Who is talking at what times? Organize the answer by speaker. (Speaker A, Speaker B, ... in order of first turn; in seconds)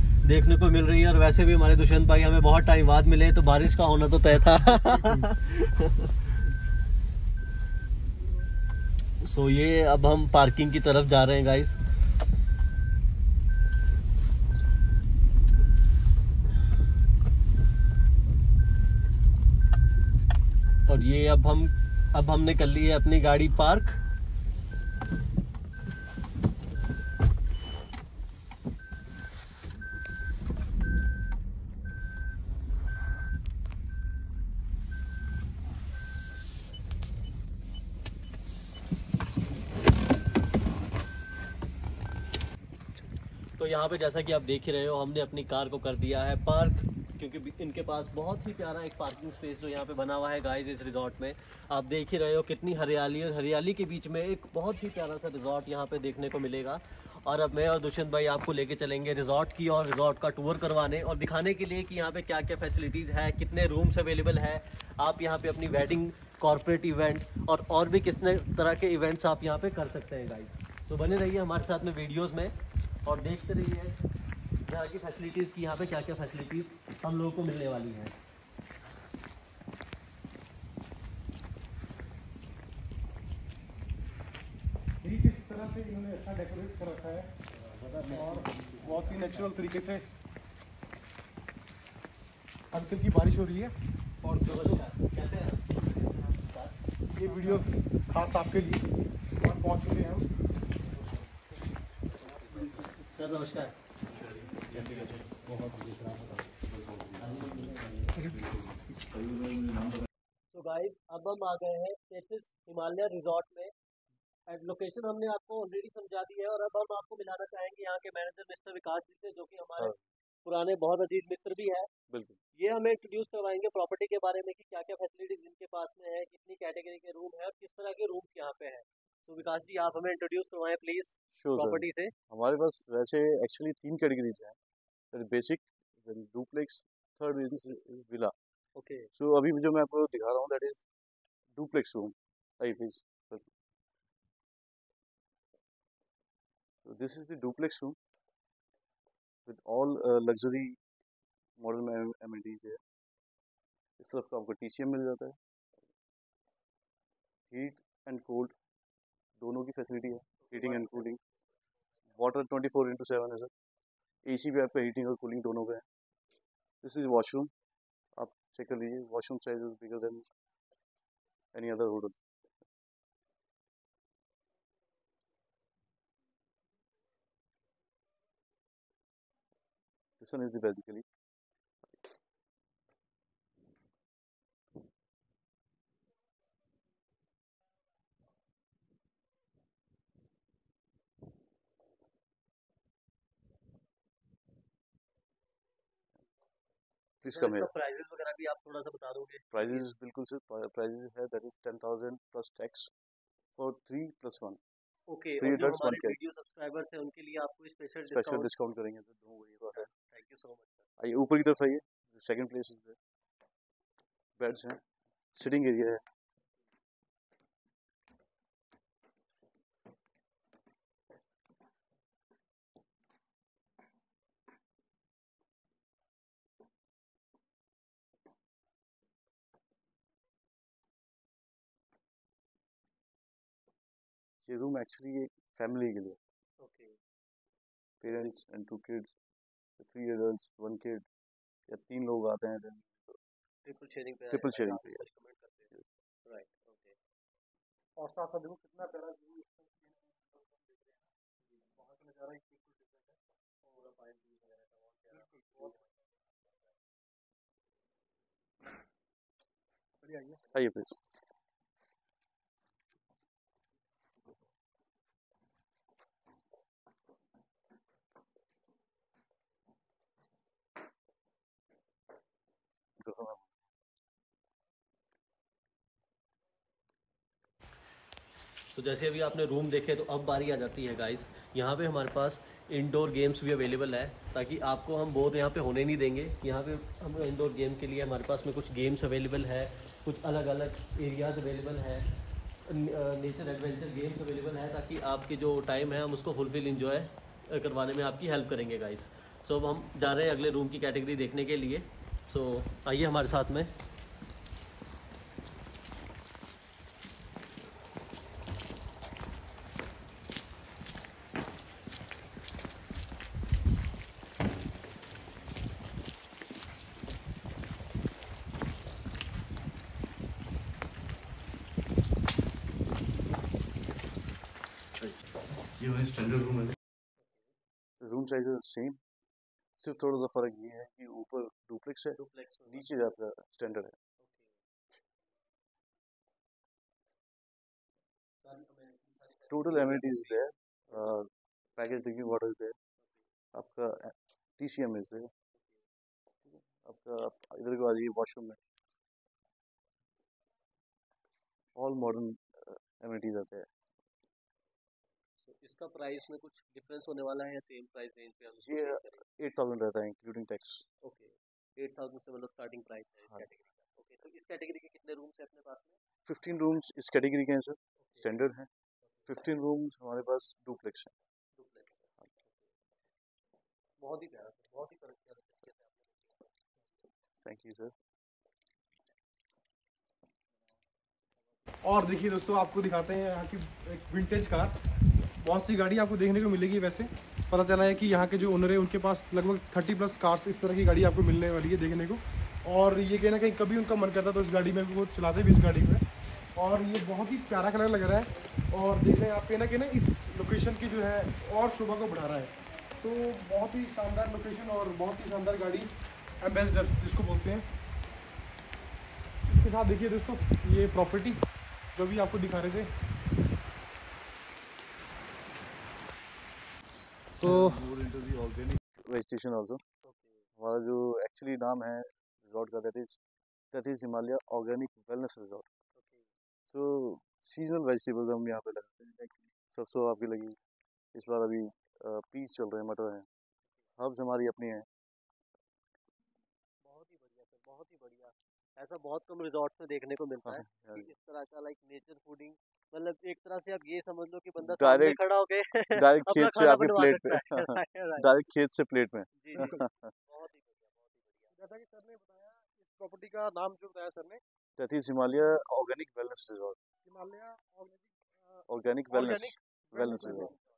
Speaker A: 0.2-6.1, 9.2-11.8, 20.9-24.0, 43.6-72.5, 73.0-74.0, 74.7-78.1, 88.0-89.3, 94.4-96.8, 103.1-103.8, 110.5-113.7, 114.5-119.9, 120.5-121.9, 122.6-132.1, 138.8-139.1, 160.6-161.1, 197.3-199.9, 205.1-208.5, 209.7-210.8, 236.6-237.0, 243.7-245.7, 246.2-246.9, 253.7-255.8, 278.7-292.1, 292.6-303.7, 332.2-332.9, 334.2-334.5, 338.4-341.1, 355.4-359.2, 361.0-366.0, 368.0-368.3, 371.6-372.0, 374.0-376.3, 420.0-420.4, 426.0-426.2, 436.9-448.3, 449.4-451.5, 459.1-459.6
Speaker B: 85.0-90.0, 92.7-94.8, 97.1-100.3, 105.5-106.4, 248.0-251.0, 260.0-260.4, 381.8-384.7, 385.4-396.0, 396.6-405.9, 406.4-407.7, 409.5-411.4, 411.9-412.9, 417.4-417.8, 451.5-454.4, 457.1-458.6, 459.9-460.5
Speaker C: 102.4-102.9, 104.1-105.6, 106.6-110.1, 122.1-122.4, 131.3-134.6, 135.1-138.3, 139.1-140.9, 141.6-143.5, 146.8-148.0, 149.5-150.8, 151.6-152.8, 154.0-155.4, 157.5-158.6, 159.4-161.2, 162.2-163.5, 164.2-165.9, 166.8-167.5, 168.2-170.2, 171.5-172.2, 180.2-181.1, 197.2-197.7, 199.5-202.9, 203.6-204.6, 205.4-206.2, 208.1-209.9, 211.0-213.0, 214.4-216.0, 234.5-236.2, 238.0-239.2, 239.8-241.1, 241.7-243.2, 244.3-245.1, 260.5-261.0, 273.0-273.5, 325.8-326.8, 328.0-329.0, 329.8-334.0, 339.5-342.8, 343.5-345.3, 346.5-348.6, 351.8-353.7, 358.6-360.9, 366.2-368.7, 369.3-371.1, 377.4-377.9, 417.4-419.8, 420.6-423.2, 423.7-425.7, 426.7-430.6, 431.1-433.3, 434.0-434.9, 440.4-441.1, 444.6-445.2, 445.9-450.1, 454.8-456.8, 458.7-460.6